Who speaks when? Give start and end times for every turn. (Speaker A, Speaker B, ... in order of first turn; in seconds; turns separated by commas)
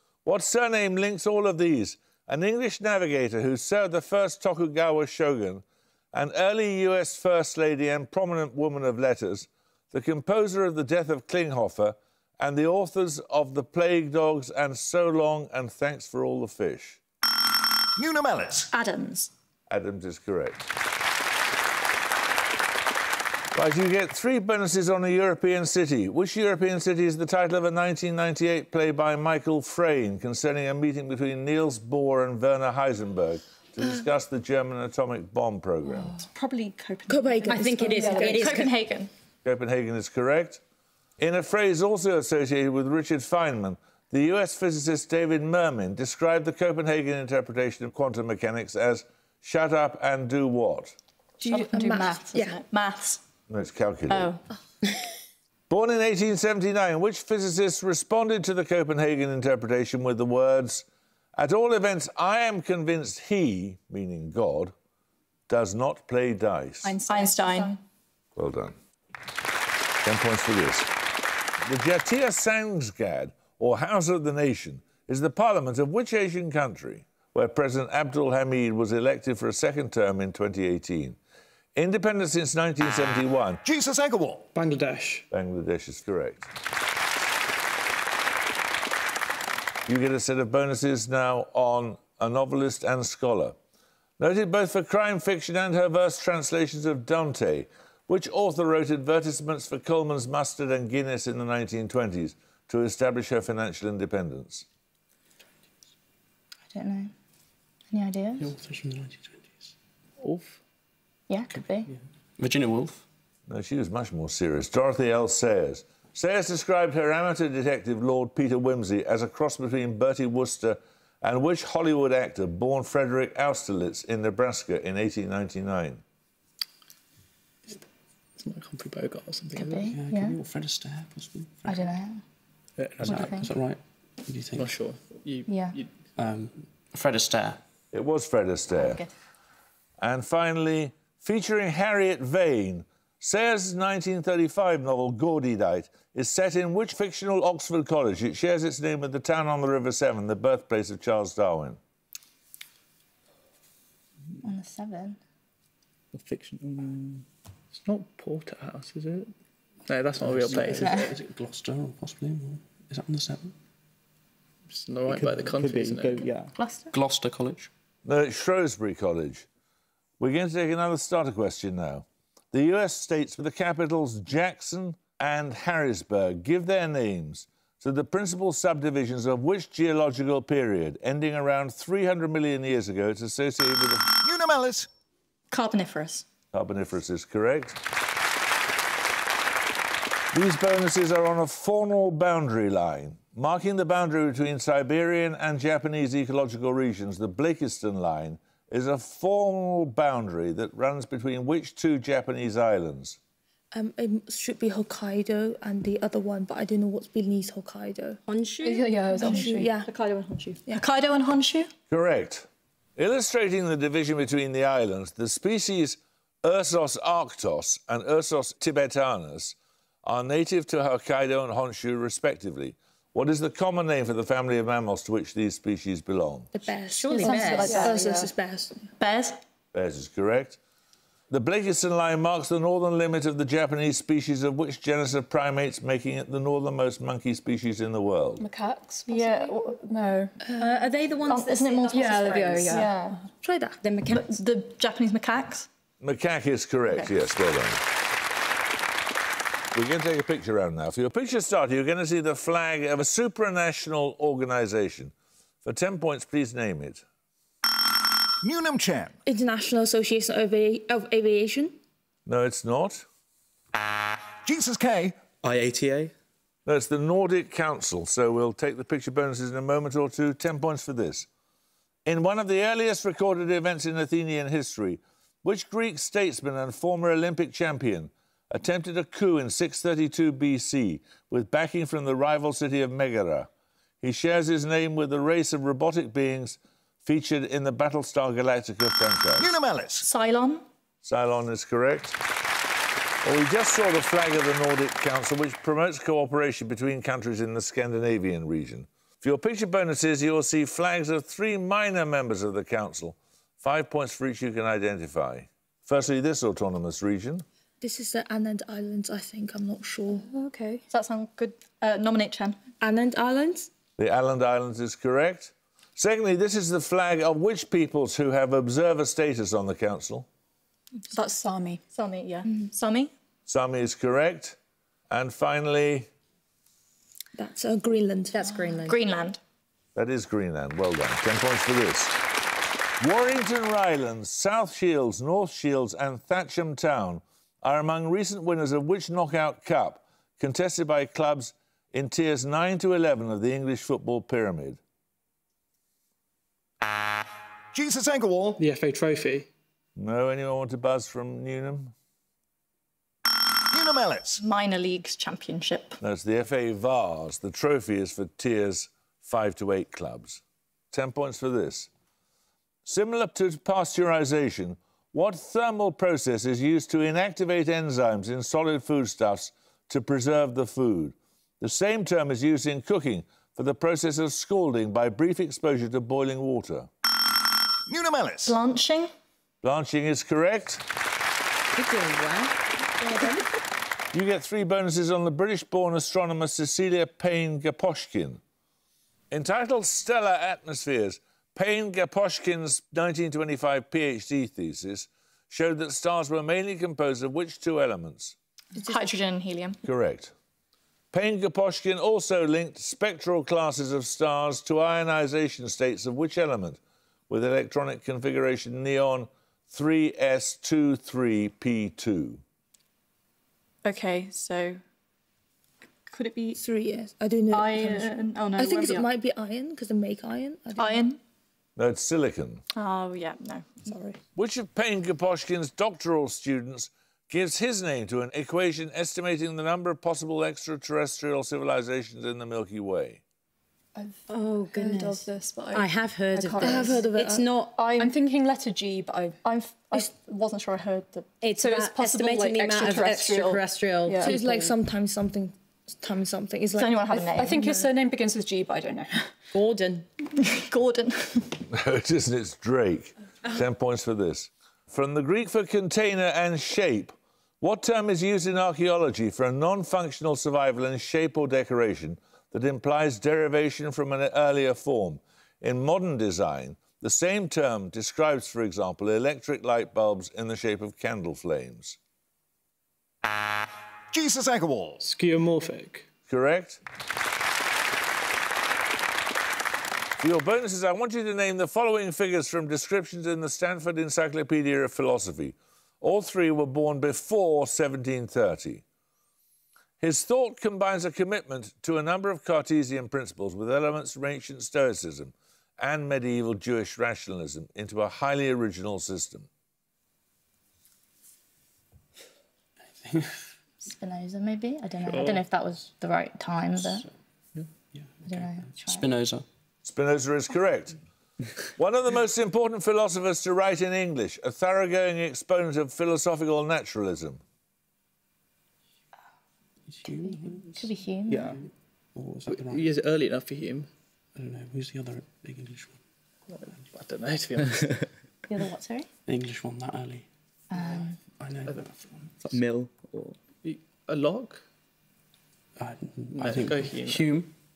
Speaker A: 0.2-17.0, Speaker B: 18.0-18.7, Speaker C: 18.7-19.3, Speaker A: 19.7-20.7, Speaker A: 23.5-36.1, Speaker C: 36.3-39.1, Speaker D: 37.1-38.3, Speaker E: 37.1-38.5, Speaker F: 37.4-38.7, Speaker A: 39.4-40.6, Speaker A: 41.2-51.0, Speaker D: 51.4-52.6, Speaker C: 51.4-53.2, Speaker A: 53.5-54.3, Speaker C: 54.1-54.4, Speaker A: 55.7-64.7, Speaker A: 65.5-66.9, Speaker E: 66.8-67.8, Speaker C: 67.1-67.7, Speaker A: 68.3-68.8, Speaker A: 70.0-70.9, Speaker A: 71.6-81.2, Speaker A: 81.8-83.6, Speaker B: 83.6-84.5, Speaker G: 84.5-85.3, Speaker A: 85.3-86.5, Speaker A: 89.9-93.5, Speaker A: 94.2-104.7, Speaker H: 106.7-107.1, Speaker H: 107.9-108.5, Speaker I: 108.4-109.7, Speaker G: 110.2-110.6, Speaker H: 111.3-111.9, Speaker I: 111.5-113.0, Speaker A: 113.5-126.0, Speaker G: 128.3-129.9, Speaker H: 129.6-130.4, Speaker I: 129.7-131.9, Speaker H: 131.6-132.2, Speaker G: 132.8-133.4, Speaker I: 133.0-134.8, Speaker H: 133.0-133.5, Speaker G: 134.6-135.9, Speaker H: 135.5-135.8, Speaker I: 136.2-137.6, Speaker A: 137.9-139.0, Speaker C: 138.8-139.1, Speaker A: 140.0-151.8, Speaker H: 154.4-155.2, Speaker J: 156.1-157.2, Speaker G: 157.7-159.3, Speaker G: 159.9-161.1, Speaker I: 160.1-163.5, Speaker H: 160.8-161.1, Speaker G: 164.7-166.2, Speaker J: 165.1-166.5, Speaker C: 166.6-166.9, Speaker I: 166.9-167.7, Speaker A: 168.0-169.5, Speaker A: 170.2-184.1, Speaker B: 184.1-184.9, Speaker C: 185.5-186.2, Speaker A: 186.5-187.8, Speaker A: 190.3-203.2, Speaker D: 203.7-208.2, Speaker F: 208.2-208.9, Speaker E: 208.6-209.8, Speaker C: 209.2-209.7, Speaker D: 209.2-209.9, Speaker C: 210.7-211.7, Speaker A: 211.9-226.5, Speaker D: 226.5-228.8, Speaker F: 226.8-227.9, Speaker E: 227.2-228.3, Speaker C: 227.3-228.0, Speaker C: 229.0-229.4, Speaker A: 229.7-230.6, Speaker A: 231.3-238.4, Speaker E: 238.5-240.4, Speaker C: 239.1-239.7, Speaker D: 239.1-239.4, Speaker D: 240.5-240.9, Speaker F: 240.6-242.9, Speaker C: 241.3-242.9, Speaker E: 241.9-243.2, Speaker D: 242.4-242.8, Speaker D: 243.3-243.8, Speaker F: 243.8-244.4, Speaker C: 244.1-245.7, Speaker A: 246.0-247.8, Speaker A: 249.7-255.1, Speaker A: 255.6-257.0, Speaker B: 258.4-259.1, Speaker D: 259.2-261.8, Speaker A: 262.2-263.1, Speaker B: 264.4-265.1, Speaker J: 265.4-266.1, Speaker A: 266.6-271.3, Speaker A: 272.0-283.5, Speaker A: 284.0-289.5, Speaker B: 289.4-290.1, Speaker C: 290.0-290.6, Speaker A: 291.0-292.2, Speaker A: 293.2-307.4, Speaker D: 307.8-310.8, Speaker C: 310.9-312.6, Speaker D: 312.8-313.7, Speaker A: 314.0-320.3, Speaker E: 321.1-321.8, Speaker C: 321.9-323.1, Speaker A: 323.5-324.6, Speaker A: 325.1-326.1, Speaker D: 327.4-328.6, Speaker F: 328.3-329.0, Speaker C: 328.9-329.4, Speaker A: 329.9-332.1, Speaker A: 333.0-344.8, Speaker B: 347.7-348.6, Speaker G: 348.6-349.5, Speaker A: 349.9-351.9, Speaker B: 353.7-354.4, Speaker C: 354.4-356.0, Speaker A: 356.0-360.4, Speaker A: 360.9-361.9, Speaker A: 362.9-376.9, Speaker B: 377.9-378.6, Speaker C: 378.4-379.1, Speaker A: 379.6-380.8, Speaker F: 381.7-383.4, Speaker A: 384.1-388.4, Speaker A: 389.3-398.3, Speaker C: 398.8-399.8, Speaker A: 399.8-400.3, Speaker A: 401.1-412.4, Speaker C: 413.8-414.8, Speaker C: 416.1-416.6, Speaker D: 416.6-421.1, Speaker C: 417.5-419.1, Speaker C: 420.8-421.2, Speaker A: 421.8-422.6, Speaker C: 422.7-423.9, Speaker A: 424.3-433.2, Speaker E: 434.0-439.4, Speaker F: 434.3-437.8, Speaker C: 436.6-436.9, Speaker D: 436.7-437.4, Speaker C: 437.8-438.1, Speaker C: 439.4-441.3, Speaker F: 441.4-444.5, Speaker E: 441.6-444.6, Speaker D: 444.2-447.8, Speaker C: 446.7-447.8, Speaker E: 447.1-449.3, Speaker F: 449.5-450.1, Speaker C: 450.4-451.6, Speaker A: 451.7-472.0, Speaker B: 474.1-475.0, Speaker G: 475.0-476.1, Speaker A: 476.3-476.8, Speaker A: 480.2-488.8, Speaker A: 490.0-499.5, Speaker I: 503.0-503.3, Speaker H: 503.8-507.0, Speaker G: 505.1-505.4, Speaker I: 507.9-509.4, Speaker H: 508.2-509.1, Speaker A: 509.8-511.0, Speaker A: 511.8-517.4, Speaker I: 519.9-522.9, Speaker H: 520.1-521.6, Speaker J: 521.3-521.5, Speaker G: 522.5-523.9, Speaker I: 524.4-526.0, Speaker G: 526.5-527.9, Speaker H: 528.5-529.1, Speaker I: 529.2-532.5, Speaker H: 530.7-531.1, Speaker J: 532.5-533.4, Speaker G: 533.6-534.6, Speaker I: 535.8-537.5, Speaker G: 536.3-537.4